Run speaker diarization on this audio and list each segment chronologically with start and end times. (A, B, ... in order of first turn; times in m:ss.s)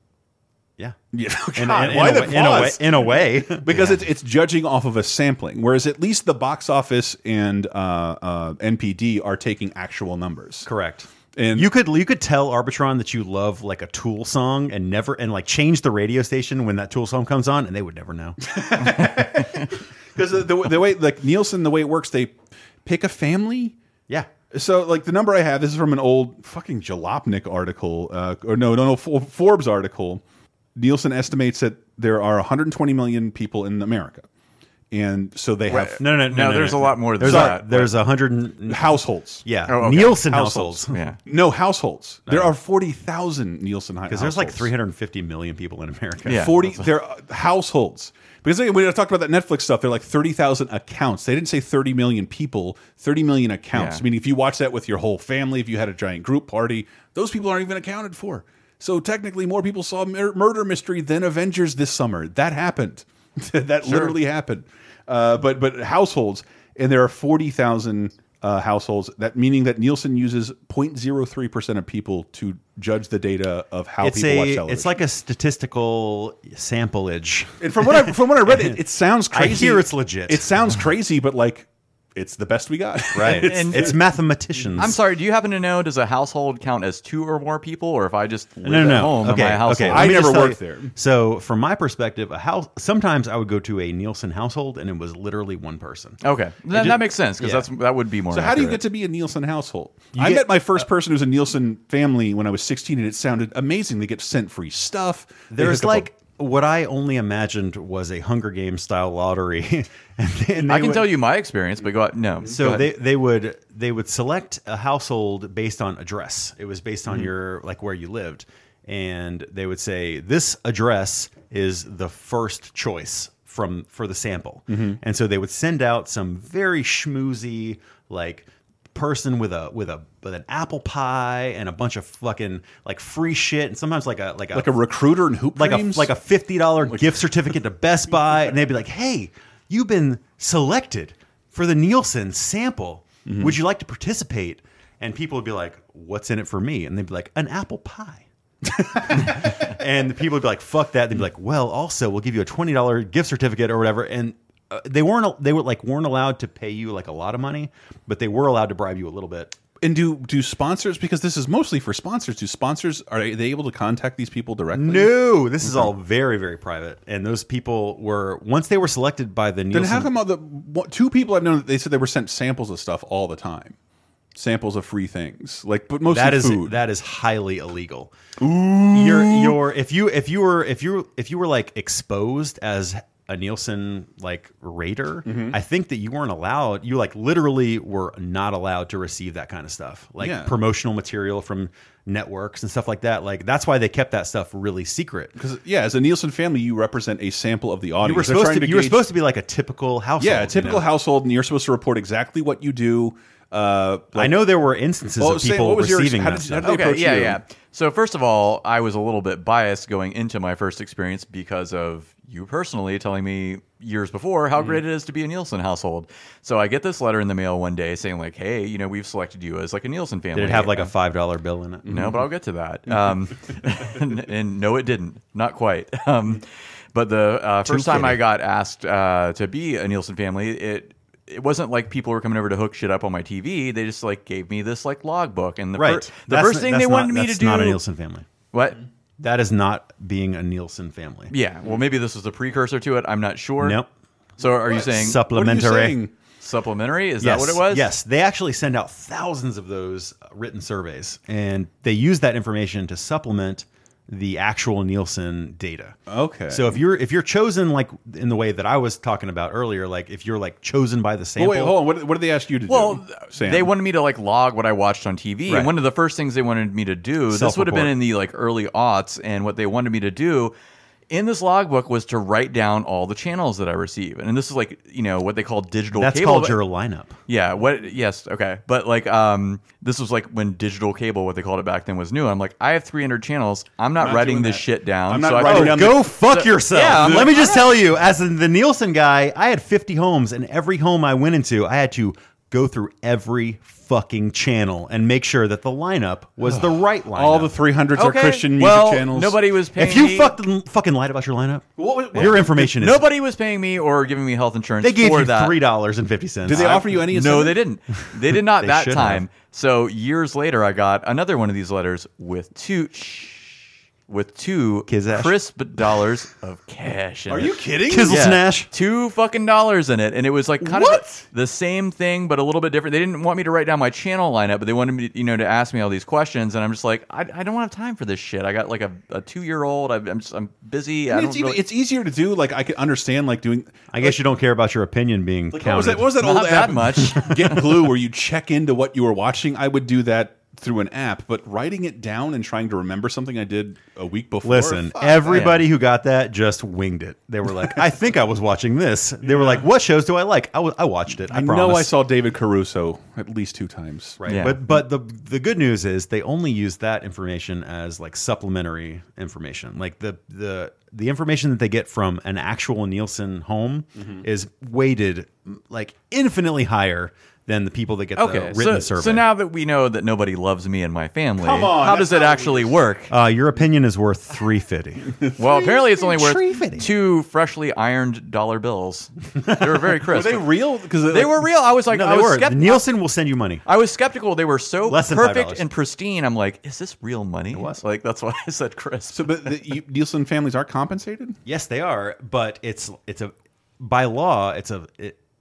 0:01.1-0:10.7 A
0:01.5-0:04.0 B
0:10.6-0:18.4 B
0:11.3-0:11.7 A
0:18.4-0:23.7 A
0:24.5-0:30.2 A
0:30.8-0:34.2 A
0:34.9-0:36.0 A
0:35.7-0:37.9 C
0:36.0-0:41.0 B
0:37.2-0:37.6 A
0:38.7-0:39.4 A
0:39.7-0:40.3 C
0:40.2-0:44.7 A
0:40.9-0:41.2 C
0:42.3-0:42.5 B
0:44.1-0:46.6 B
0:46.2-0:46.8 C
0:46.3-1:15.0 A
0:53.7-0:54.0 C
1:03.8-1:04.2 C
1:14.0-1:18.8 B
1:17.6-1:23.9 A
1:19.3-1:20.5 B
1:23.1-1:25.0 B
1:23.2-1:24.0 C
1:24.8-1:30.3 C
1:28.6-1:36.2 B
1:29.8-1:30.9 A
1:36.2-1:38.8 C
1:36.7-1:37.0 A
1:37.4-1:37.6 B
1:38.3-1:46.1 A
1:40.1-1:40.9 B
1:45.5-1:51.1 B
1:50.6-1:52.9 C
1:52.4-2:14.8 B
2:04.7-2:05.0 A
2:14.5-2:16.1 A
2:15.5-2:39.5 B
2:16.9-2:17.2 A
2:23.2-2:23.6 A
2:39.8-2:45.9 A
2:44.7-2:50.1 B
2:49.7-2:53.8 A
2:54.3-2:56.8 A
2:56.1-2:58.1 B
2:58.4-2:59.6 A
2:58.9-3:15.3 B
3:05.2-3:05.6 A
3:10.2-3:10.6 A
3:15.4-3:19.0 A
3:18.0-3:20.9 B
3:20.2-3:24.4 A
3:24.1-3:26.7 B
3:25.2-3:27.4 A
3:26.6-3:40.9 C
3:40.3-3:42.0 B
3:41.8-3:42.2 A
3:41.9-3:57.8 C
3:47.6-3:48.2 B
3:55.8-3:58.3 B
3:58.5-3:58.8 C
3:59.2-4:01.3 B
4:01.3-4:03.8 C
4:03.6-4:03.9 B
4:04.4-4:05.2 C
4:04.4-4:06.1 A
4:04.8-4:06.0 B
4:06.4-4:07.9 C
4:07.2-4:16.0 B
4:16.1-4:16.8 A
4:16.5-4:21.8 B
4:21.4-4:23.7 A
4:22.7-4:30.5 C
4:25.5-4:25.7 B
4:27.3-4:27.9 B
4:31.1-4:36.6 C
4:36.0-4:37.1 B
4:37.3-4:47.6 C
4:44.0-4:46.2 A
4:45.4-4:57.5 B
4:46.9-4:47.4 A
4:56.4-4:59.4 A
4:58.0-5:00.4 C
4:59.7-5:03.0 B
5:01.8-5:02.6 A
5:02.2-5:05.6 C
5:04.8-5:06.9 B
5:06.4-5:07.6 A
5:06.5-5:31.6 C
5:08.6-5:09.2 B
5:14.9-5:15.3 B
5:17.3-5:18.1 A
5:17.9-5:18.7 B
5:20.6-5:21.2 A
5:31.1-5:34.2 A
5:33.9-5:36.1 B
5:35.5-5:45.4 A
5:36.2-5:37.6 C
5:44.4-5:51.9 B
5:45.3-5:45.6 C
5:49.2-5:49.6 A
5:51.3-5:54.3 A
5:54.2-6:09.3 B
5:54.2-5:54.6 C
6:04.0-6:04.2 A
6:08.2-6:13.1 C
6:11.4-6:12.7 A
6:13.1-6:16.9 B
6:15.4-6:20.5 C
6:19.4-6:19.7 B
6:20.1-6:21.4 A
6:21.1-6:22.8 C
6:21.9-6:23.6 B
6:23.6-6:29.4 C
6:24.9-6:25.6 B
6:27.5-6:27.8 B
6:29.1-6:31.4 A
6:31.4-6:35.2 B